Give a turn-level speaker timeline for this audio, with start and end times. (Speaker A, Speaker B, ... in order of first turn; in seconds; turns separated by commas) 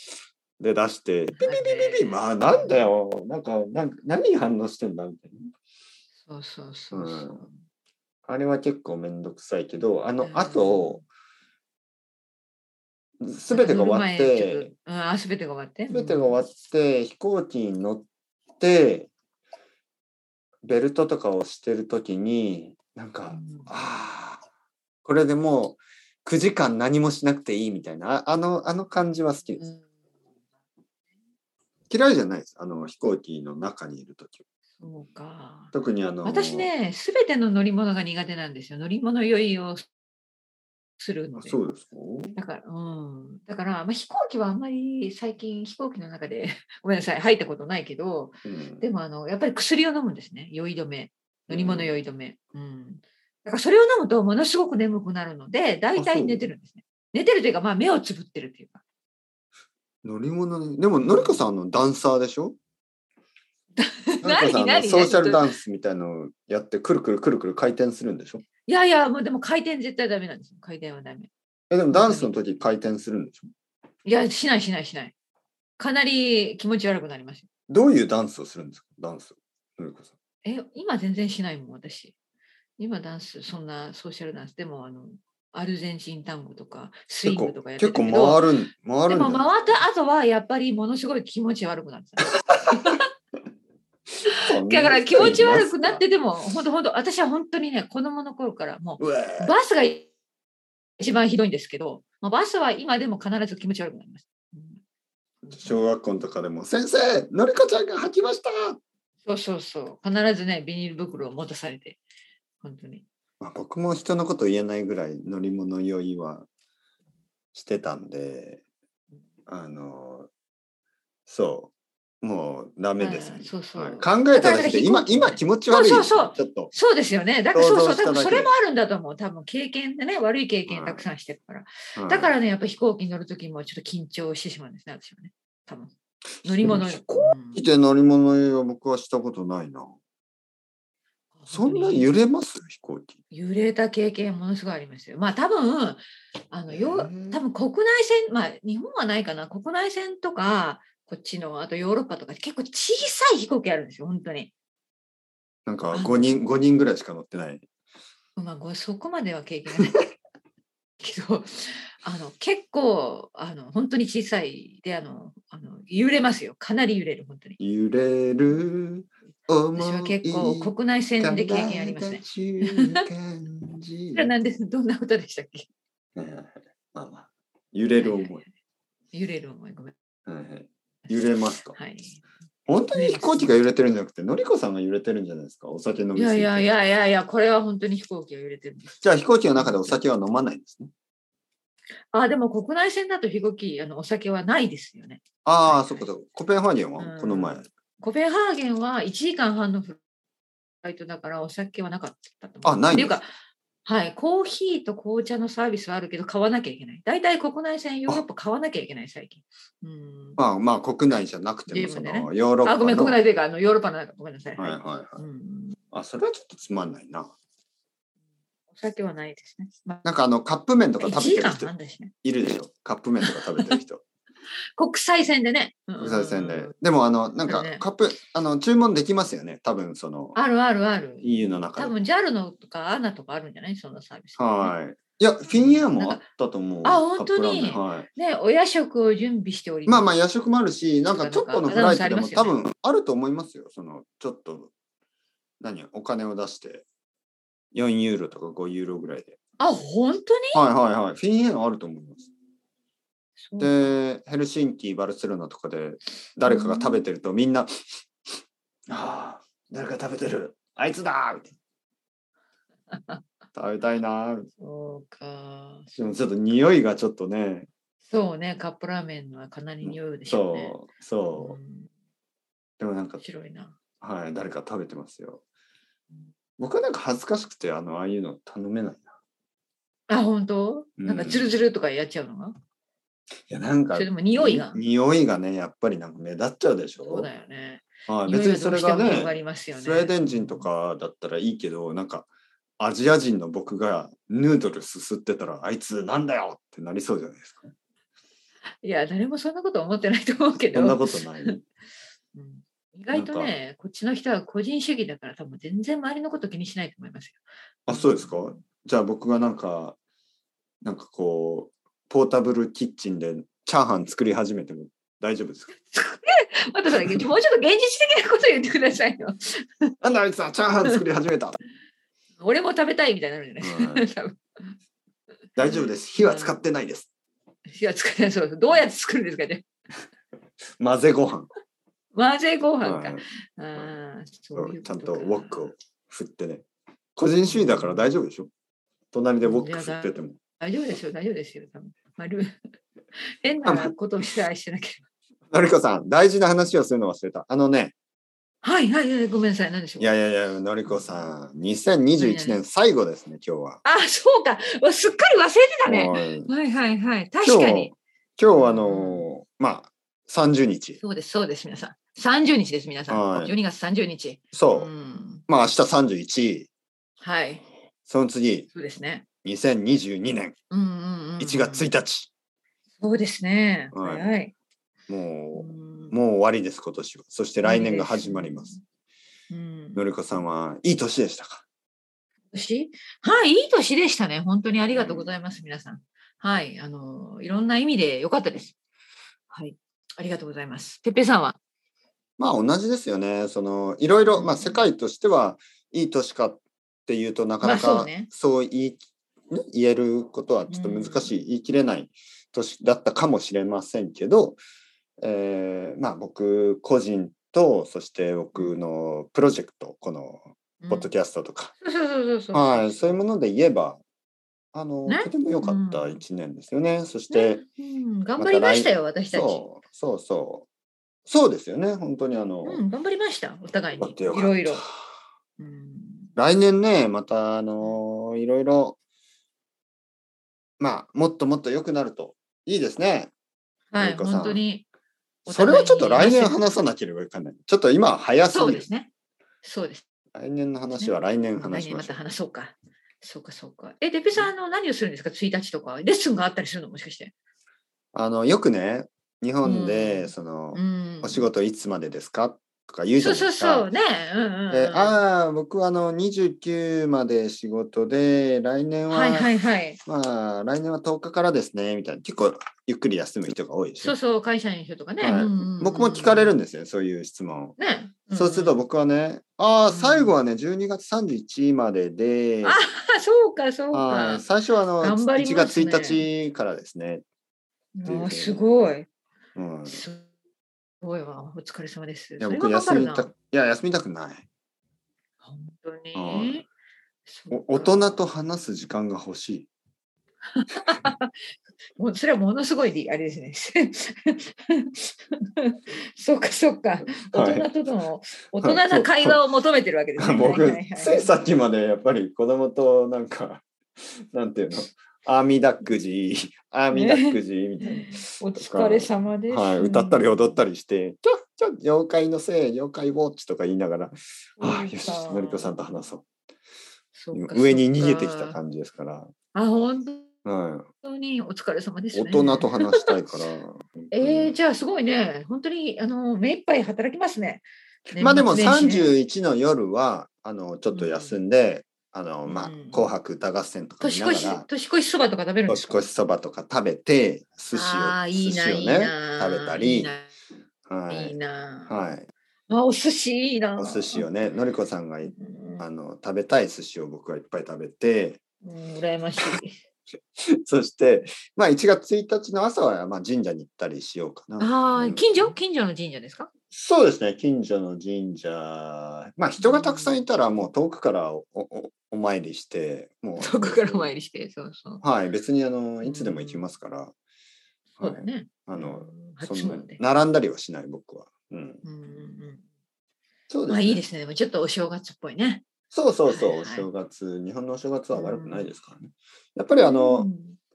Speaker A: 0.6-5.4, Speaker B: 1.4-2.9, Speaker B: 6.2-7.6, Speaker A: 6.9-7.4, Speaker A: 8.2-11.0, Speaker B: 10.2-11.0, Speaker A: 13.2-14.7, Speaker B: 13.5-16.4, Speaker A: 15.9-18.1, Speaker A: 18.6-19.1, Speaker A: 20.6-24.4, Speaker B: 23.3-23.7, Speaker A: 25.0-29.7, Speaker A: 31.9-34.4, Speaker B: 34.8-35.7, Speaker A: 35.7-36.7, Speaker B: 36.2-39.8, Speaker B: 41.0-41.6, Speaker A: 41.4-42.4, Speaker B: 42.3-58.8, Speaker A: 48.4-48.8, Speaker A: 51.5-51.9, Speaker A: 56.0-56.5, Speaker A: 60.0-62.6, Speaker B: 61.0-61.4, Speaker B: 63.8-65.5, Speaker A: 64.2-68.4, Speaker B: 68.7-71.3, Speaker A: 71.7-73.5, Speaker B: 71.9-72.3, Speaker B: 74.0-75.1, Speaker B: 75.8-77.5, Speaker A: 77.7-80.1, Speaker B: 80.4-82.1, Speaker B: 82.8-88.4, Speaker A: 87.2-89.8, Speaker B: 89.1-93.0, Speaker B: 94.2-100.1, Speaker A: 94.3-96.0, Speaker A: 99.0-99.5, Speaker B: 101.0-104.8, Speaker B: 105.4-105.8, Speaker A: 105.5-108.8, Speaker B: 109.2-112.0, Speaker B: 112.6-113.0, Speaker A: 113.4-116.5, Speaker A: 117.5-118.6, Speaker A: 119.5-120.3, Speaker A: 121.3-126.7, Speaker B: 123.0-135.9, Speaker A: 127.5-128.5, Speaker A: 130.7-131.0, Speaker A: 131.9-132.3, Speaker B: 136.4-137.6, Speaker A: 136.5-139.9, Speaker B: 141.4-142.1, Speaker A: 141.5-143.2, Speaker B: 143.3-154.5, Speaker A: 146.7-147.4, Speaker A: 155.7-157.6, Speaker B: 155.9-156.4, Speaker B: 158.4-160.0, Speaker B: 161.0-167.6, Speaker A: 167.6-174.3, Speaker B: 169.7-173.0, Speaker B: 174.1-175.7, Speaker A: 176.2-178.4, Speaker B: 178.0-178.4, Speaker B: 179.1-179.9, Speaker A: 180.3-181.8, Speaker B: 181.1-182.2, Speaker A: 182.7-186.7, Speaker B: 182.9-183.7, Speaker B: 186.1-189.0, Speaker A: 188.9-190.9, Speaker B: 189.5-190.0, Speaker B: 192.1-196.1, Speaker A: 195.4-197.7, Speaker B: 197.0-200.0, Speaker B: 200.8-203.3, Speaker A: 202.6-203.2, Speaker B: 203.8-210.4, Speaker A: 210.4-213.2, Speaker B: 211.7-215.8, Speaker A: 214.6-215.2, Speaker A: 215.9-217.3, Speaker B: 218.7-220.0, Speaker A: 220.0-221.7, Speaker B: 221.0-222.1, Speaker A: 222.2-224.0, Speaker B: 223.2-223.8, Speaker B: 224.8-226.7, Speaker A: 226.0-230.3, Speaker B: 227.5-227.8, Speaker B: 230.3-234.7, Speaker A: 231.2-231.9, Speaker A: 234.4-238.1, Speaker B: 235.5-236.2, Speaker B: 236.8-240.1, Speaker A: 239.8-244.7, Speaker B: 241.1-242.6, Speaker A: 245.6-246.8, Speaker A: 247.7-249.4, Speaker B: 249.6-250.6, Speaker A: 250.5-252.2, Speaker B: 253.4-253.9, Speaker A: 253.6-257.7, Speaker B: 256.4-257.0, Speaker A: 258.9-261.5, Speaker B: 262.9-263.2, Speaker A: 263.5-264.5, Speaker B: 264.6-266.2, Speaker A: 266.0-267.7, Speaker B: 268.1-270.8, Speaker A: 269.8-271.6, Speaker B: 271.4-271.9, Speaker A: 272.8-273.2, Speaker B: 273.2-273.8, Speaker A: 274.0-275.4, Speaker A: 276.6-279.1, Speaker B: 280.1-282.6, Speaker A: 281.0-281.5, Speaker A: 283.5-287.3, Speaker B: 283.9-284.8, Speaker B: 287.0-290.7, Speaker A: 288.1-292.3, Speaker A: 292.8-297.7, Speaker B: 298.8-301.6, Speaker A: 300.7-301.6, Speaker B: 302.3-308.5, Speaker A: 303.1-303.5, Speaker A: 307.9-310.0, Speaker A: 310.8-315.7, Speaker B: 315.9-319.9, Speaker A: 316.9-317.2, Speaker A: 320.0-321.6, Speaker B: 322.4-324.8, Speaker A: 323.6-324.1, Speaker A: 325.6-327.1, Speaker B: 325.6-326.5, Speaker B: 327.7-329.7, Speaker A: 330.8-331.5, Speaker B: 332.1-335.7, Speaker A: 332.8-333.9, Speaker A: 334.5-338.5, Speaker B: 337.5-338.1, Speaker A: 339.1-340.4, Speaker B: 339.4-342.6, Speaker B: 343.4-345.0, Speaker A: 343.6-343.9, Speaker A: 345.5-347.9, Speaker B: 348.6-350.1, Speaker A: 350.0-353.8, Speaker B: 350.9-351.3, Speaker B: 352.2-352.6, Speaker B: 353.8-357.9, Speaker A: 355.9-356.5, Speaker A: 357.4-361.0, Speaker B: 358.5-359.3, Speaker B: 361.0-365.4, Speaker A: 363.1-363.5, Speaker A: 364.5-364.9, Speaker A: 365.5-366.7, Speaker B: 367.2-367.6, Speaker A: 368.1-368.7, Speaker B: 368.7-369.2, Speaker A: 369.4-370.5, Speaker B: 370.7-371.9, Speaker A: 371.4-372.3, Speaker B: 373.0-374.5, Speaker A: 373.9-374.3, Speaker A: 375.1-378.7, Speaker B: 375.5-376.1, Speaker B: 377.6-378.8, Speaker B: 379.5-380.0, Speaker A: 379.9-381.6, Speaker B: 382.5-388.7, Speaker A: 384.9-385.3, Speaker B: 389.5-391.6, Speaker A: 392.4-404.6, Speaker B: 394.3-394.8, Speaker B: 397.6-398.3, Speaker B: 400.7-401.3, Speaker A: 405.2-411.7, Speaker B: 410.8-411.1, Speaker B: 411.8-413.2, Speaker A: 412.5-414.0, Speaker A: 414.7-417.6, Speaker B: 415.1-416.2, Speaker B: 417.3-419.6, Speaker A: 418.4-420.7, Speaker A: 421.2-422.8, Speaker B: 422.6-424.8, Speaker A: 423.9-424.9, Speaker B: 425.6-426.3, Speaker A: 426.4-429.0, Speaker A: 430.8-433.3, Speaker B: 433.9-434.8, Speaker A: 434.0-434.6, Speaker B: 435.4-436.6, Speaker A: 435.5-438.9, Speaker B: 438.5-439.1, Speaker B: 439.6-440.0, Speaker A: 440.3-442.2, Speaker B: 440.9-447.3, Speaker A: 448.1-453.9, Speaker B: 449.6-451.5, Speaker B: 453.2-455.2, Speaker A: 454.7-459.5, Speaker B: 459.1-460.0, Speaker A: 460.1-464.1, Speaker B: 464.0-466.5, Speaker A: 465.2-467.8, Speaker B: 467.8-468.8, Speaker A: 468.3-472.8, Speaker B: 469.9-470.3, Speaker B: 472.6-474.4, Speaker A: 473.9-477.2, Speaker B: 475.0-476.2, Speaker B: 477.9-479.1, Speaker A: 478.0-478.6, Speaker A: 479.5-480.0, Speaker B: 479.9-480.3, Speaker B: 481.0-483.3, Speaker A: 482.4-484.4, Speaker B: 485.4-486.6, Speaker A: 486.1-486.6, Speaker B: 487.3-488.2, Speaker A: 487.5-489.7, Speaker B: 490.5-491.3, Speaker B: 492.0-501.3, Speaker A: 497.2-497.7, Speaker A: 498.6-499.4, Speaker A: 500.2-516.2, Speaker B: 506.9-510.6, Speaker B: 514.6-515.8, Speaker B: 517.1-518.6, Speaker A: 517.3-519.3, Speaker B: 519.5-520.3, Speaker A: 520.4-520.9, Speaker B: 521.0-523.1, Speaker A: 522.1-524.5, Speaker B: 524.1-529.1, Speaker A: 528.2-534.7, Speaker B: 530.9-531.4, Speaker B: 532.5-533.1, Speaker B: 534.0-536.0, Speaker A: 535.7-540.1, Speaker B: 537.7-540.3, Speaker A: 540.9-541.4, Speaker B: 541.1-541.9, Speaker A: 541.9-542.3, Speaker B: 542.7-544.3, Speaker A: 543.8-548.4, Speaker B: 545.3-545.8, Speaker B: 548.6-549.8, Speaker A: 550.4-555.5, Speaker B: 554.6-556.5, Speaker A: 556.7-564.1, Speaker B: 559.6-560.2, Speaker B: 563.4-565.0, Speaker A: 565.0-567.1, Speaker B: 566.0-566.7, Speaker A: 568.0-571.8, Speaker B: 568.0-570.0, Speaker B: 571.8-572.6, Speaker A: 573.5-574.0, Speaker B: 573.7-575.6, Speaker A: 575.9-580.3, Speaker B: 576.3-576.9, Speaker B: 578.1-578.7, Speaker B: 579.7-580.6